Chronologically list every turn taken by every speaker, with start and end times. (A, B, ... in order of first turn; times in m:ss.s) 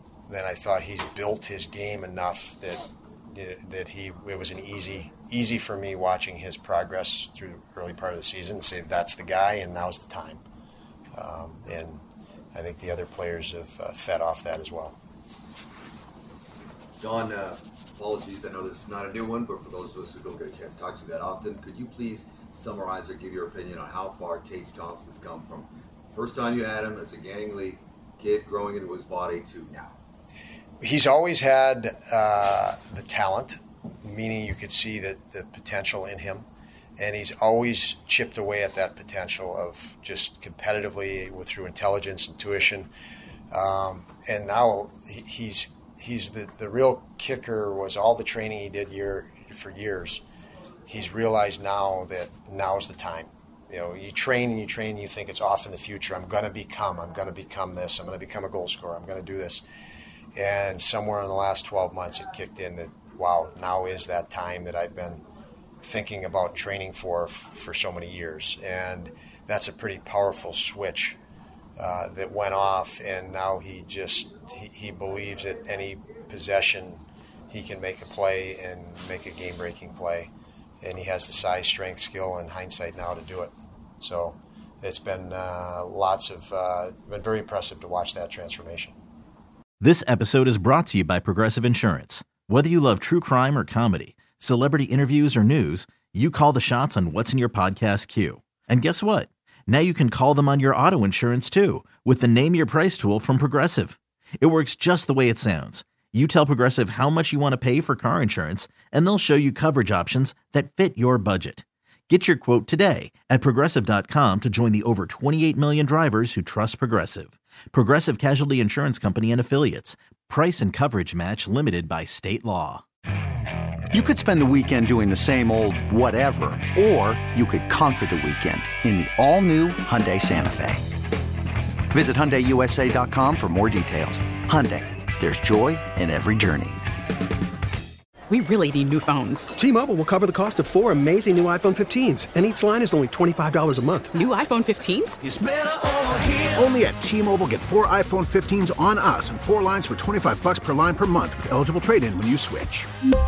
0:00.3-0:10.4 A
0:11.1-0:12.0 A
0:12.5-0:15.0 A
0:17.0-0:30.0 B
0:30.8-0:36.4 A
0:37.0-0:42.9 A
0:43.5-0:50.2 A
0:50.9-0:59.6 A
1:00.3-1:05.2 A
1:05.8-1:11.2 A
1:11.8-1:29.0 A
1:29.8-2:02.8 C
2:03.9-2:10.8 D
2:04.2-2:04.6 E
2:11.9-2:16.8 D
2:18.3-2:19.5 F
2:19.6-2:24.1 E
2:24.1-2:25.2 F
2:25.2-2:32.9 G